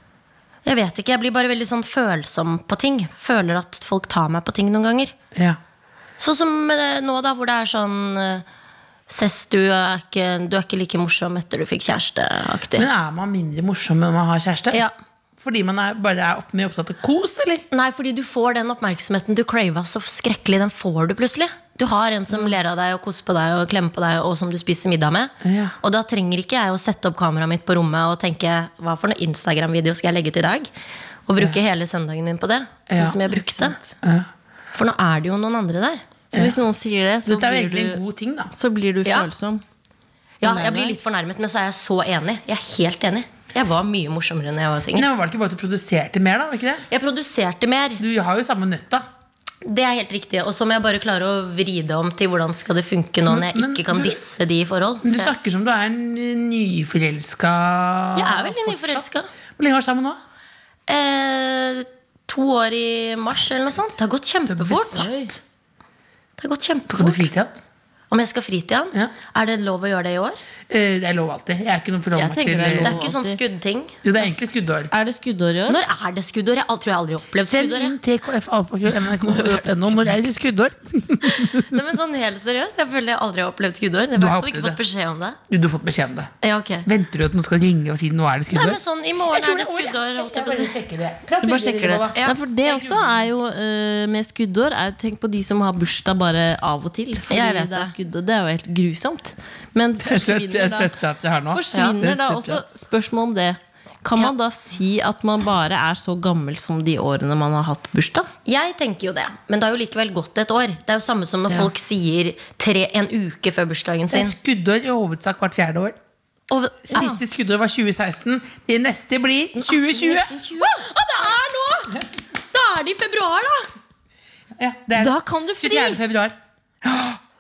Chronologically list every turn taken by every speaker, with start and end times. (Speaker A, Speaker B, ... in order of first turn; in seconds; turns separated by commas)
Speaker A: 0.6-5.1, Speaker A: 6.2-8.4, Speaker A: 9.1-12.9, Speaker B: 12.7-14.8, Speaker B: 15.4-17.6, Speaker A: 17.7-30.7, Speaker B: 25.4-25.7, Speaker A: 31.3-33.8, Speaker B: 32.9-33.4, Speaker B: 34.0-34.3, Speaker A: 34.7-36.0, Speaker B: 36.3-36.6, Speaker C: 36.3-39.6, Speaker B: 37.2-38.5, Speaker A: 40.4-45.1, Speaker B: 40.4-40.9, Speaker B: 44.9-46.8, Speaker A: 46.9-48.0, Speaker B: 48.0-49.0, Speaker A: 49.6-55.3, Speaker B: 53.3-54.2, Speaker B: 55.0-59.0, Speaker A: 58.1-59.3, Speaker B: 59.6-60.2, Speaker A: 60.9-65.1, Speaker B: 64.5-65.4, Speaker C: 64.8-65.3, Speaker A: 66.4-67.3, Speaker B: 66.9-67.5, Speaker A: 68.1-70.4, Speaker B: 70.7-73.1, Speaker C: 72.1-73.4, Speaker A: 72.8-74.0, Speaker B: 74.0-74.9, Speaker C: 74.9-75.8, Speaker A: 75.7-78.0, Speaker B: 77.4-81.6, Speaker C: 78.9-80.1, Speaker A: 81.3-85.4, Speaker B: 84.1-84.8, Speaker B: 85.5-86.3, Speaker A: 86.4-86.9, Speaker B: 86.8-93.3, Speaker A: 88.5-90.7, Speaker C: 91.4-100.9, Speaker A: 97.3-97.9, Speaker B: 100.0-102.7, Speaker C: 101.5-108.3, Speaker A: 108.5-114.3, Speaker B: 114.1-115.9, Speaker A: 116.5-117.1, Speaker B: 116.8-120.3, Speaker A: 119.6-123.7, Speaker B: 124.6-127.2, Speaker C: 124.9-126.0